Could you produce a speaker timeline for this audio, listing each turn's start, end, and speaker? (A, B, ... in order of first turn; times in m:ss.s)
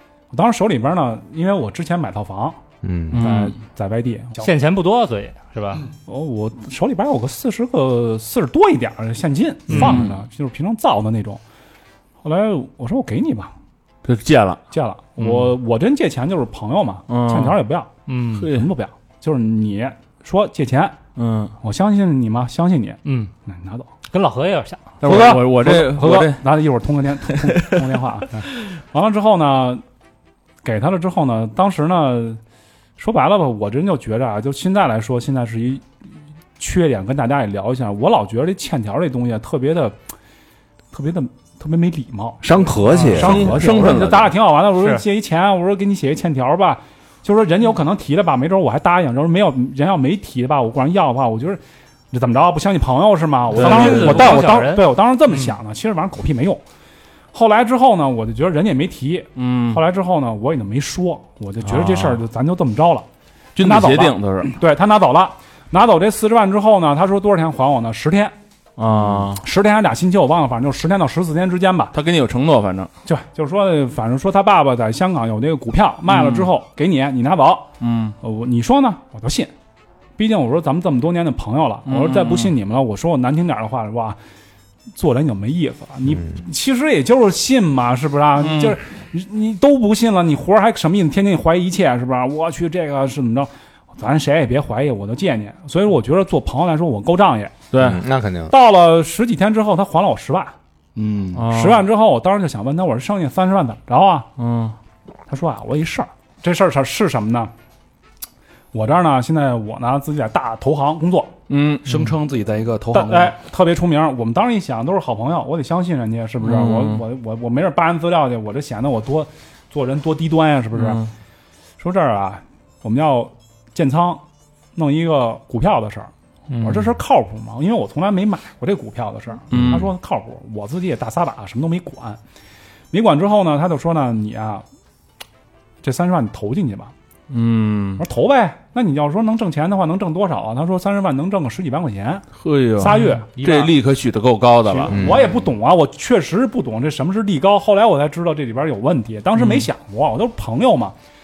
0:00.3-0:02.6 A
0:02.8-0:03.2 B
0:03.1-0:03.6 C
0:03.1-0:04.5 A
0:04.4-0:05.9 D
0:06.0-0:11.4 A
0:09.7-0:10.0 D
0:09.7-0:10.2 C
0:12.2-0:13.5 A
0:14.0-0:14.6 C
0:14.7-0:17.9 A
0:15.2-0:15.5 C
0:17.1-0:17.6 C
0:18.1-0:18.5 D
0:18.4-0:18.7 C
0:18.5-0:21.0 A
0:21.2-0:21.5 C
0:21.6-0:23.9 A
0:23.0-0:23.3 D
0:24.1-0:25.0 D
0:25.0-0:26.4 C
0:25.0-0:29.8 A
0:27.3-0:27.8 C
0:30.6-0:32.4 A
0:33.0-0:35.8 A
0:36.6-0:40.0 A
0:40.9-0:51.6 A
0:42.4-0:43.6 B
0:42.9-0:43.2 D
0:43.1-0:44.3 C
0:44.8-0:45.0 D
0:52.1-0:56.6 A
0:53.5-0:55.5 D
0:53.6-0:54.4 C
0:57.3-1:03.0 A
0:59.4-0:59.8 C
1:01.6-1:02.2 C
1:03.6-1:04.5 C
1:03.6-1:08.3 A
1:08.8-1:09.4 C
1:09.1-1:12.0 A
1:11.9-1:12.9 C
1:13.0-1:19.5 A
1:16.1-1:16.5 C
1:17.8-1:18.1 C
1:20.2-1:24.2 A
1:21.9-1:22.5 C
1:25.0-1:37.6 A
1:28.4-1:28.8 C
1:37.7-1:38.0 C
1:37.8-1:38.5 B
1:38.5-1:40.5 A
1:41.0-1:41.4 E
1:41.3-1:41.8 C
1:41.5-1:44.3 A
1:44.4-1:44.7 C
1:45.3-1:47.5 A
1:48.7-1:51.4 A
1:51.5-1:52.1 C
1:51.9-1:53.3 E
1:52.9-2:01.0 A
1:56.4-1:57.0 C
2:00.7-2:01.1 C
2:01.8-2:04.2 A
2:04.8-2:12.2 A
2:06.5-2:06.8 D
2:09.5-2:09.9 C
2:12.9-2:14.6 A
2:15.8-2:16.9 A
2:17.3-2:18.0 C
2:18.0-2:23.4 A
2:22.4-2:25.2 C
2:22.8-2:23.7 D
2:24.7-2:31.0 A
2:24.9-2:25.3 B